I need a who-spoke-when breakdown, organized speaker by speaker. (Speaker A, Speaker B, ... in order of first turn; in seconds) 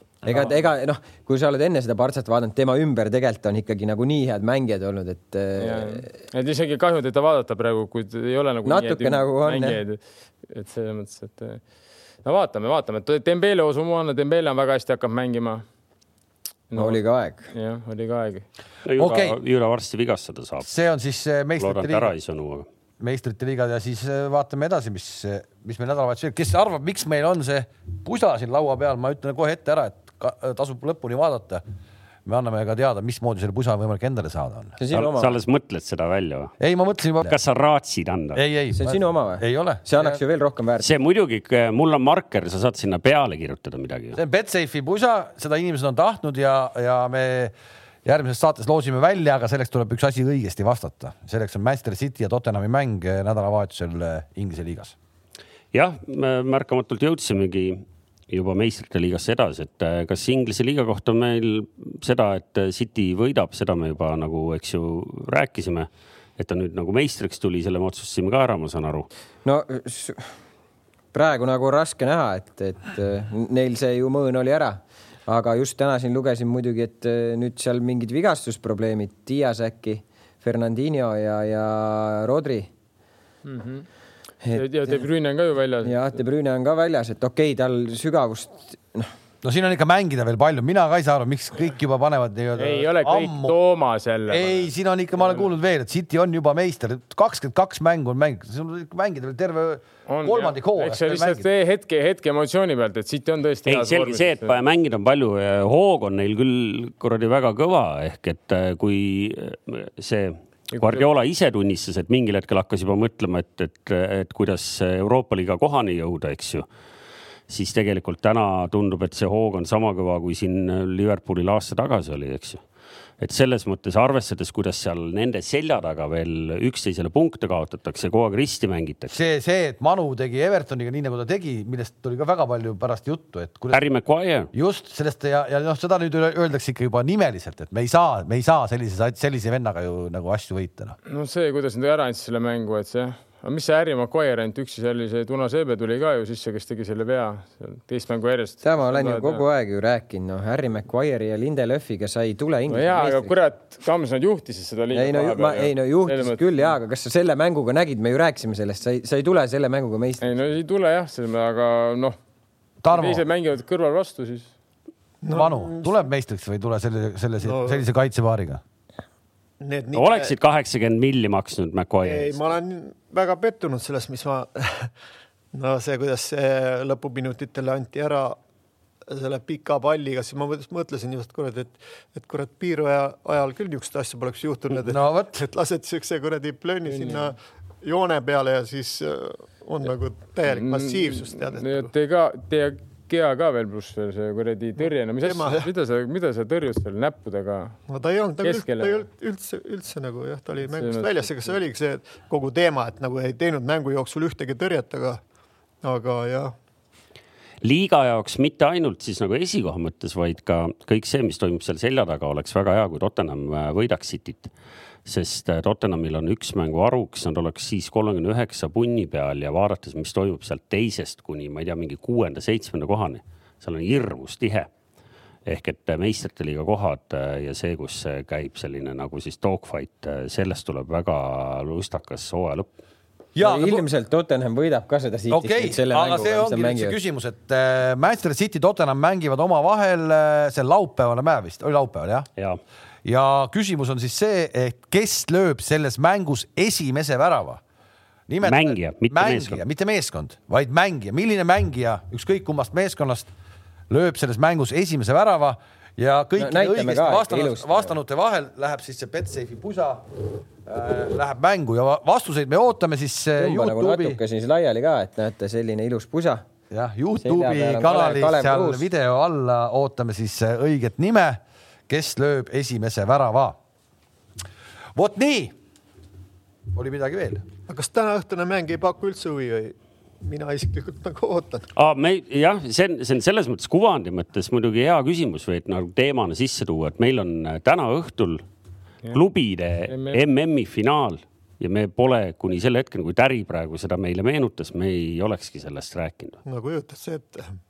Speaker A: 0.2-6.1, 8.6-9.8, 16.8-17.4, 34.8-35.4, 38.8-40.9, 69.4-70.3, 71.1-82.7, 84.4-85.0, 85.8-89.1, 148.6-153.3, 154.9-160.2, 233.4-236.9, 256.4-257.9, 263.4-266.4, 267.2-268.9
Speaker B: 5.6-11.6, 12.2-15.6, 16.7-17.0, 17.5-18.4, 83.4-83.9, 84.5-86.0, 92.6-95.4, 100.1-104.6, 110.7-111.0, 141.1-149.4, 152.7-156.6, 160.2-162.2, 162.9-164.5, 186.9-187.3, 190.4-197.8, 198.4-199.1, 200.6-201.6, 289.9-290.2
Speaker C: 18.9-20.7, 21.6-22.7, 34.9-36.5, 37.2-38.4, 40.8-44.2, 55.7-69.1, 103.7-116.7, 117.5-122.6, 123.2-129.1, 133.7-134.5, 169.9-172.5, 207.6-214.5, 215.1-224.7, 225.4-232.7, 248.4-249.6, 281.8-288.4, 289.1-296.4
Speaker D: 19.0-19.4, 20.6-22.1, 23.0-31.6, 32.2-34.8, 36.6-37.4, 38.3-40.1, 44.1-47.5, 48.0-54.9, 89.4-93.5, 94.3-101.5, 129.1-133.8, 134.5-140.9, 162.8-163.2, 165.3-168.6, 184.7-185.4, 233.3-233.8, 235.3-242.3, 243.0-247.6, 248.3-253.3, 253.9-264.2, 266.7-273.6, 274.9-275.5, 276.7-277.4
Speaker E: 165.2-166.0, 167.4-167.8, 169.6-170.3, 172.0-174.9, 175.5-178.4, 179.1-191.9, 195.2-195.7, 197.9-205.2, 205.8-206.5, 277.7-281.7, 296.4-297.6